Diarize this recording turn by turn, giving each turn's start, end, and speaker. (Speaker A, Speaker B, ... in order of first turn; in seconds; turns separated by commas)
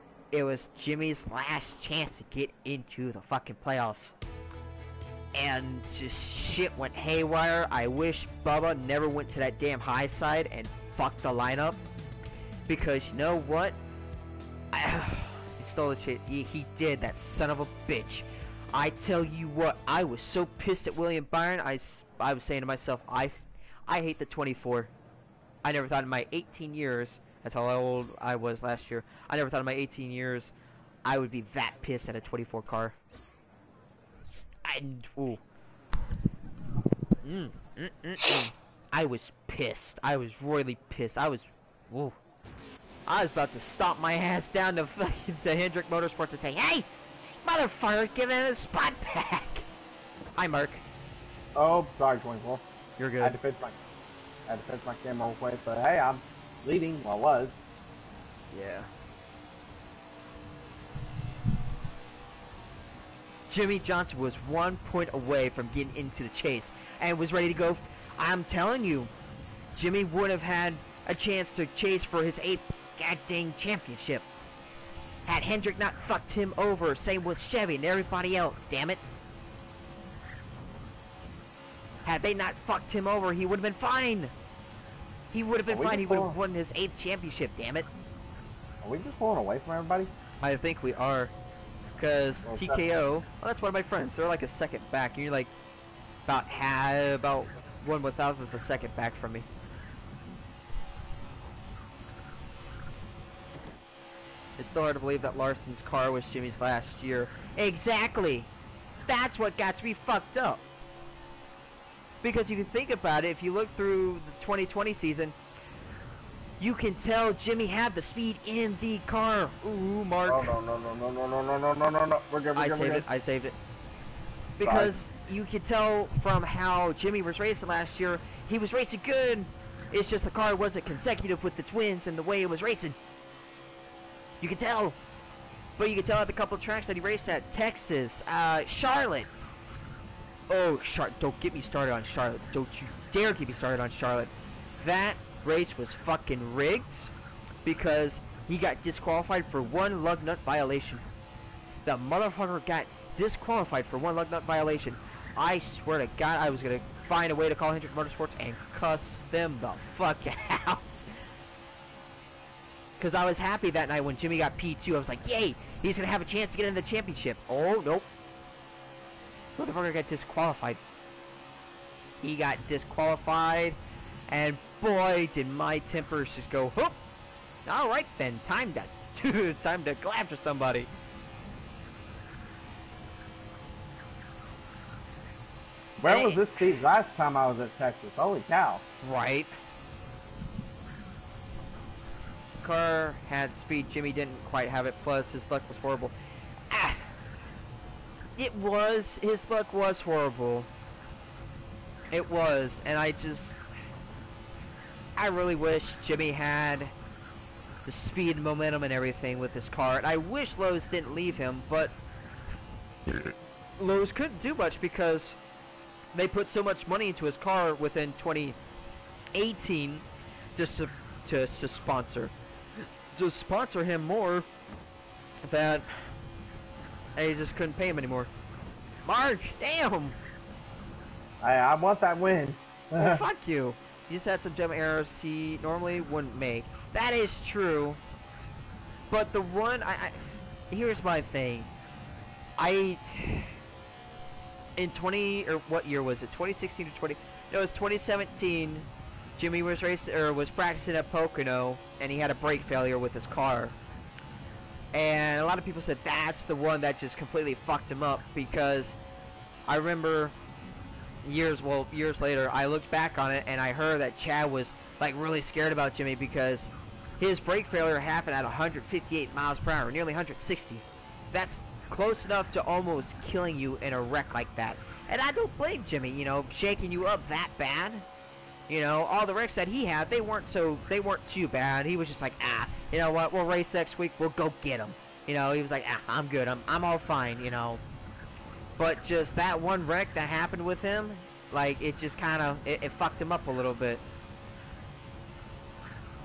Speaker A: 0.3-4.2, Speaker A: 5.3-11.8, Speaker A: 12.7-13.8, Speaker A: 14.7-24.9, Speaker A: 25.6-30.5, Speaker A: 31.1-32.9, Speaker A: 34.6-35.4, Speaker A: 37.2-42.1, Speaker A: 43.1-46.9, Speaker A: 47.4-49.6, Speaker A: 50.4-50.8, Speaker B: 51.5-52.6, Speaker A: 53.0-53.4, Speaker B: 53.2-53.8, Speaker B: 54.5-57.6, Speaker A: 58.5-58.9, Speaker A: 63.5-69.1, Speaker A: 69.7-74.3, Speaker A: 75.2-79.0, Speaker A: 82.0-84.3, Speaker A: 85.3-87.9, Speaker B: 85.7-86.4, Speaker B: 88.8-90.1, Speaker A: 90.4-91.3, Speaker A: 92.0-95.5, Speaker B: 92.5-92.8, Speaker A: 96.2-99.5, Speaker A: 104.6-108.5, Speaker A: 109.1-110.6, Speaker A: 112.2-115.4, Speaker A: 116.6-120.5, Speaker B: 120.3-123.0, Speaker A: 122.5-123.5, Speaker A: 124.6-133.0, Speaker B: 124.6-124.9, Speaker A: 134.4-135.0, Speaker A: 135.8-139.3, Speaker A: 140.5-147.1, Speaker A: 147.6-151.0, Speaker A: 151.8-161.1, Speaker A: 163.0-168.1, Speaker A: 169.6-170.8, Speaker A: 172.2-173.8, Speaker A: 174.3-177.0, Speaker A: 177.7-180.9, Speaker B: 186.0-188.8, Speaker A: 186.1-186.4, Speaker A: 189.0-189.5, Speaker A: 192.6-196.1, Speaker A: 196.7-197.1, Speaker A: 198.4-200.7, Speaker A: 202.1-203.6, Speaker A: 205.2-206.9, Speaker A: 207.8-211.9, Speaker A: 213.1-215.4, Speaker A: 216.1-218.6, Speaker A: 219.3-220.0, Speaker A: 220.6-222.3, Speaker A: 223.1-224.5, Speaker A: 225.4-225.9, Speaker A: 227.2-228.3, Speaker A: 229.1-230.2, Speaker B: 231.4-233.2, Speaker A: 233.0-238.0, Speaker A: 239.1-241.7, Speaker A: 242.6-243.6, Speaker A: 244.8-253.8, Speaker A: 254.9-259.0, Speaker A: 259.7-260.3, Speaker A: 261.2-278.1, Speaker A: 278.7-287.8, Speaker A: 288.8-294.0